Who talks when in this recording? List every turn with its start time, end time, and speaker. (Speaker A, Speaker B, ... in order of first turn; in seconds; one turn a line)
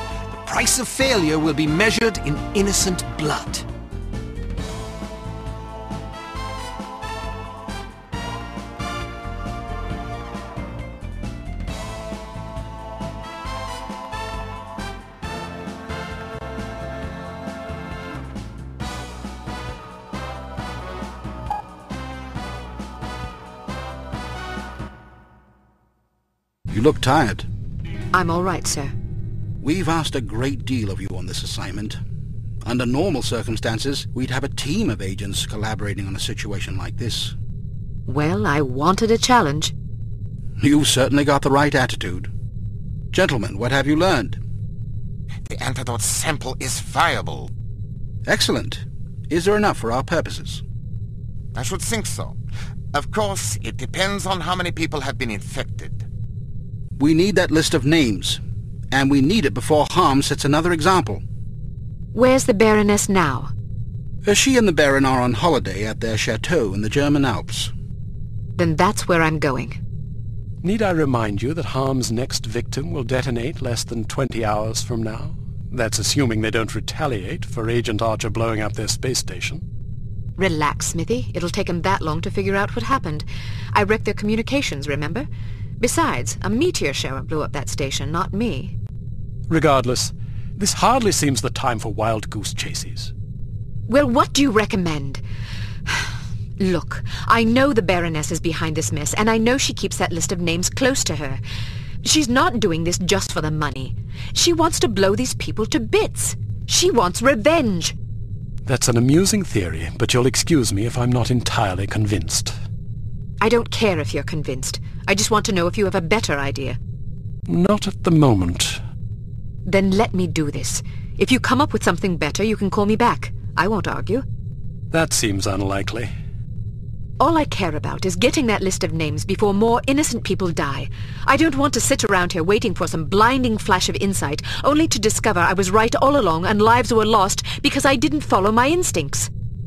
Speaker A: 0.4-3.6
Speaker B: 26.7-27.5
Speaker C: 28.1-28.9
Speaker B: 29.6-32.0
Speaker B: 32.6-37.4
Speaker C: 38.1-39.7
Speaker B: 40.6-42.3
Speaker B: 43.1-44.4
Speaker D: 45.5-47.5
Speaker B: 48.3-50.6
Speaker D: 51.5-52.4
Speaker D: 52.9-56.0
Speaker B: 57.0-58.4
Speaker B: 58.9-61.2
Speaker C: 62.1-63.5
Speaker B: 64.2-67.7
Speaker C: 68.6-69.8
Speaker E: 70.6-79.6
Speaker C: 80.4-85.3
Speaker C: 85.8-88.7
Speaker E: 89.5-93.1
Speaker C: 93.9-95.2
Speaker C: 95.9-101.4
Speaker C: 102.0-108.0
Speaker E: 108.7-112.5
Speaker C: 113.4-116.8
Speaker E: 117.5-118.8
Speaker C: 119.7-124.3
Speaker E: 124.9-126.1
Speaker C: 127.2-139.3